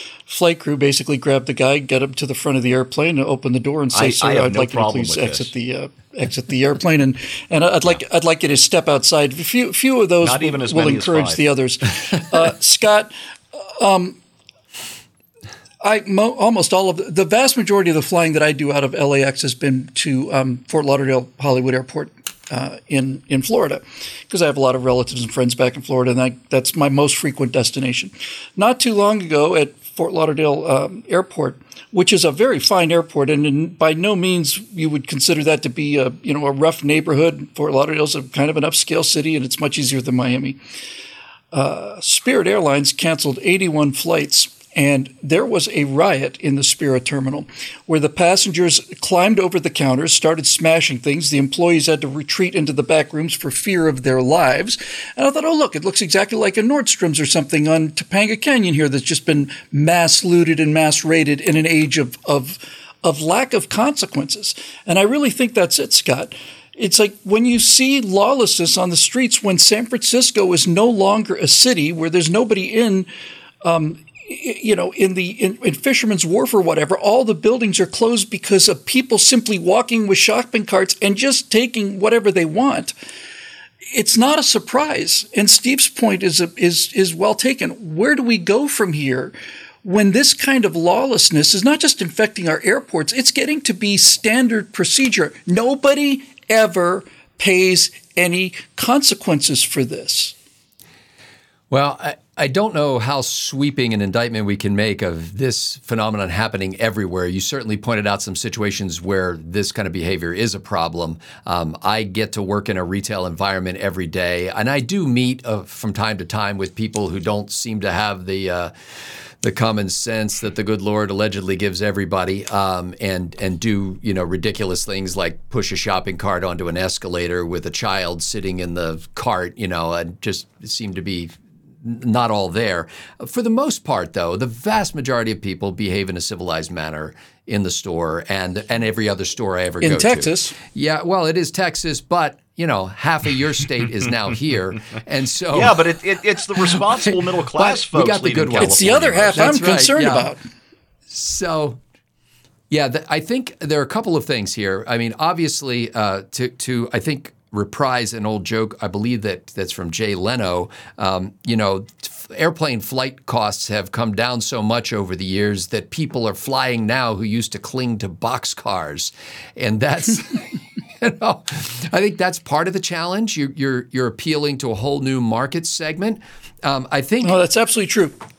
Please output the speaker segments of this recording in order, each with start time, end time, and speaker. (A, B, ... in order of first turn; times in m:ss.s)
0:00.2-0:14.2 A
0:03.9-0:05.5 B
0:10.2-0:11.5 B
0:15.8-0:40.6 A
0:41.5-1:13.1 A
1:13.6-1:22.9 A
1:23.9-1:40.3 A
1:41.7-1:58.7 C
1:59.4-2:25.8 C
2:19.8-2:20.6 A
2:25.5-2:29.5 B
2:27.6-2:30.3 C
2:28.6-2:30.4 A
2:31.1-2:31.8 C
2:32.7-2:57.4 C
2:57.2-2:58.1 A